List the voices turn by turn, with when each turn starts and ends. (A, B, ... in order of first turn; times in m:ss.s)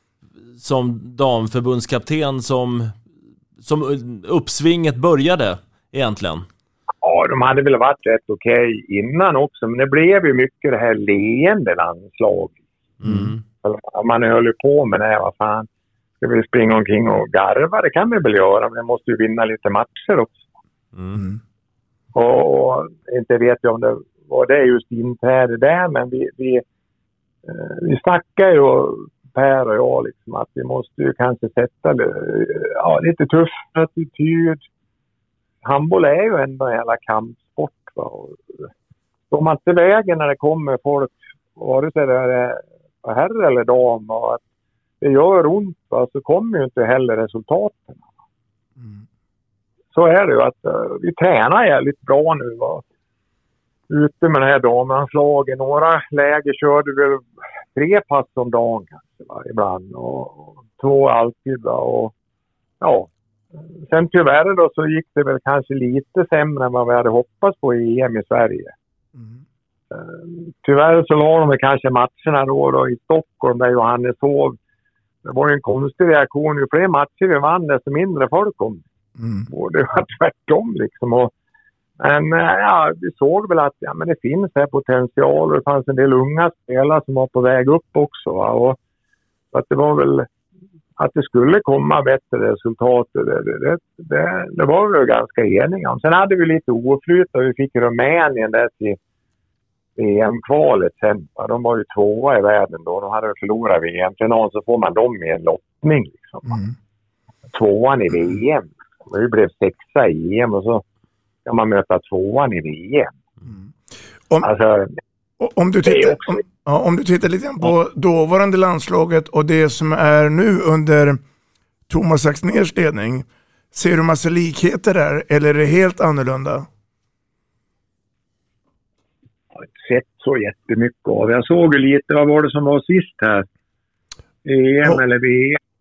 0:00.6-0:02.9 A
0:03.6-0:06.5 A
0:07.0-0:12.6 B
0:13.0-0:13.4 A
0:13.0-0:13.3 C
0:13.6-0:15.7 B
0:16.2-0:20.4 B
0:21.0-0:21.2 A
0:22.1-0:26.6 B
0:27.5-0:34.6 B
0:35.6-0:38.4 B
0:39.3-0:44.4 B
0:45.0-0:48.0 B
0:49.9-0:52.8 B
0:53.9-1:02.1 B
1:02.8-1:03.1 B
1:03.8-1:08.7 B
1:09.9-1:14.6 B
1:15.2-1:18.8 B
1:19.2-1:19.5 C
1:19.5-1:21.3 B
1:22.0-1:28.8 B
1:29.5-1:30.3 B
1:31.0-1:39.0 B
1:40.0-1:46.6 B
1:47.5-1:50.8 B
1:51.5-1:53.1 B
1:53.5-1:53.7 C
1:54.4-1:54.9 B
1:55.4-2:01.2 C
1:55.8-1:56.4 B
2:01.9-2:06.7 C
2:09.6-2:13.5 B
2:14.4-2:15.6 B